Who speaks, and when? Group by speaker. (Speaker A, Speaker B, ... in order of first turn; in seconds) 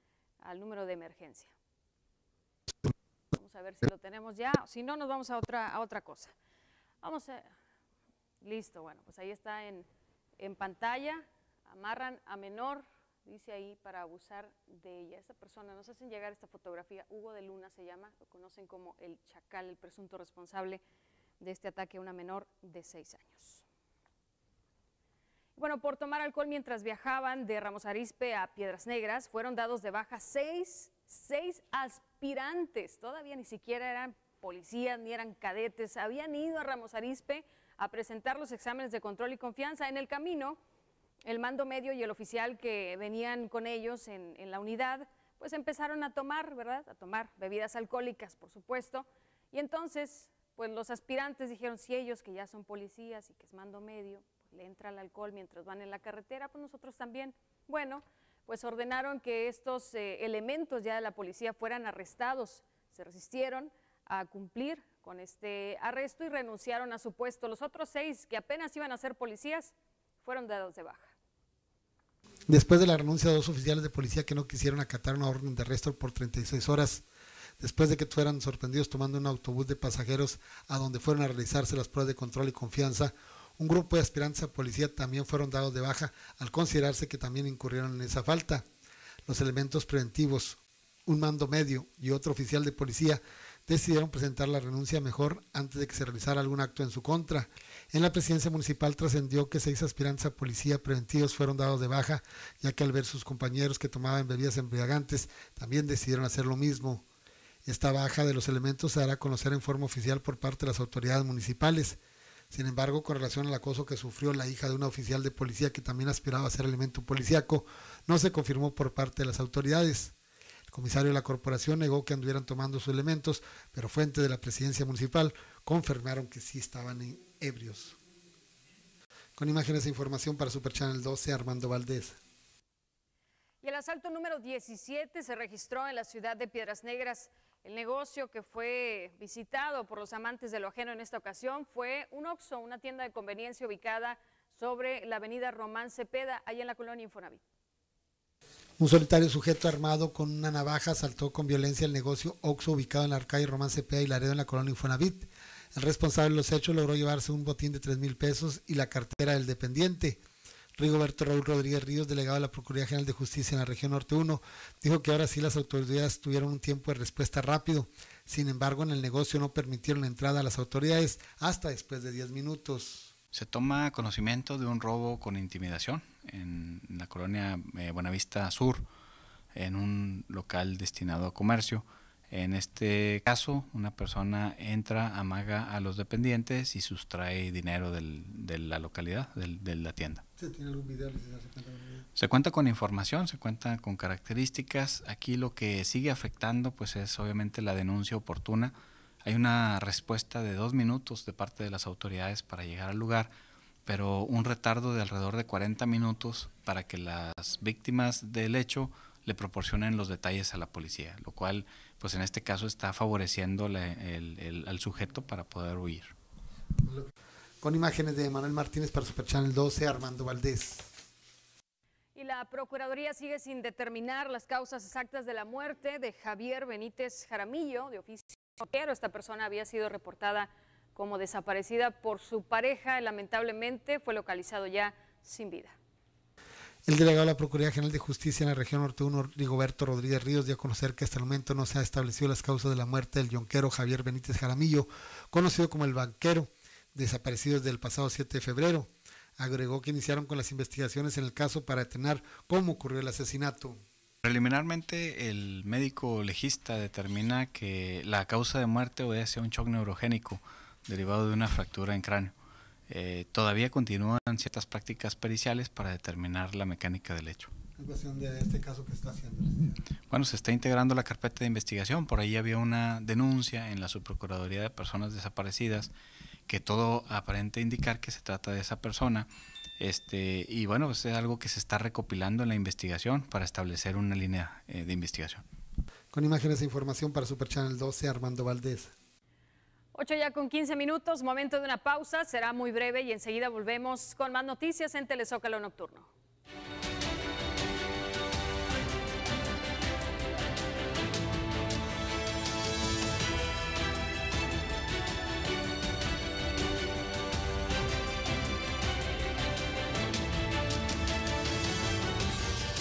Speaker A: 0.4-1.5, 3.3-6.3, 7.0-7.5, 8.4-9.9, 10.4-20.8, 21.4-23.6, 25.6-40.6, 41.2-71.1, 133.6-147.4, 222.2-235.8, 289.9-296.1
Speaker B: 72.5-77.0, 77.6-88.7, 89.3-107.0, 107.7-112.0, 112.5-120.1, 120.7-128.0, 129.4-132.2, 148.8-160.2, 160.8-173.1, 190.4-192.1, 217.6-220.9, 236.9-253.8, 267.8-269.8, 286.1-288.9
Speaker C: 173.3-178.9, 179.5-190.2, 192.2-203.3, 203.9-216.1, 254.2-262.3, 262.9-267.5, 270.1-275.9, 276.5-285.4